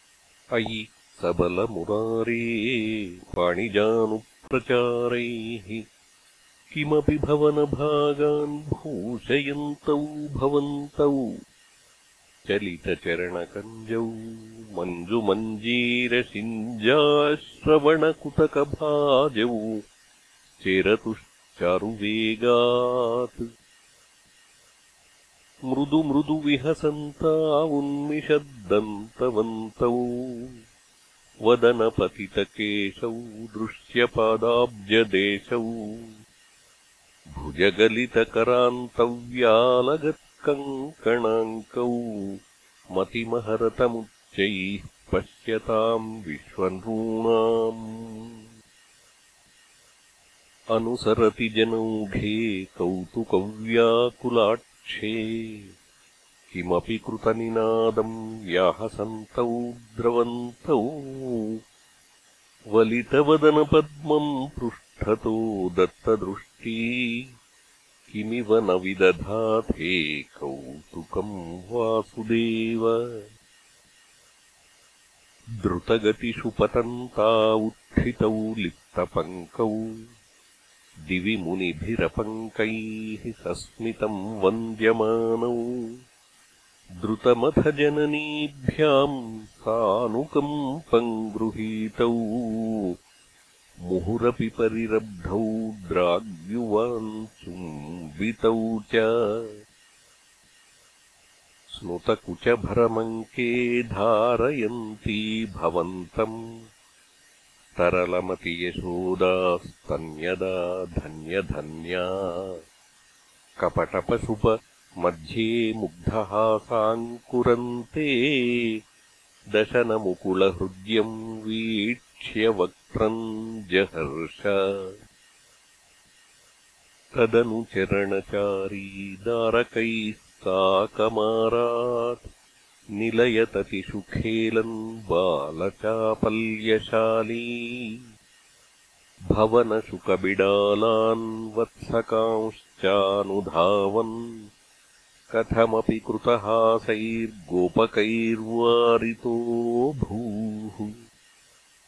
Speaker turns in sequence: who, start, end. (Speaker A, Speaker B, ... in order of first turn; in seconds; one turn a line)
Speaker A: 0.5-5.8
Speaker A: 6.7-11.3
Speaker A: 12.5-19.8
Speaker A: 20.6-23.4
Speaker A: 25.7-30.6
Speaker A: 31.4-36.1
Speaker A: 37.4-42.3
Speaker A: 43.0-48.3
Speaker A: 50.7-55.7
Speaker A: 56.5-61.5
Speaker A: 62.7-67.2
Speaker A: 68.1-73.0
Speaker A: 75.6-79.8
Speaker A: 81.1-85.7
Speaker A: 87.0-92.9
Speaker A: 93.9-99.5
Speaker A: 101.8-106.3
Speaker A: 107.8-112.5
Speaker A: 113.6-114.5
Speaker A: 115.0-118.7
Speaker A: 119.5-124.9
Speaker A: 127.2-132.2
Speaker A: 133.0-138.0
Speaker A: 139.3-144.2
Speaker A: 145.3-150.9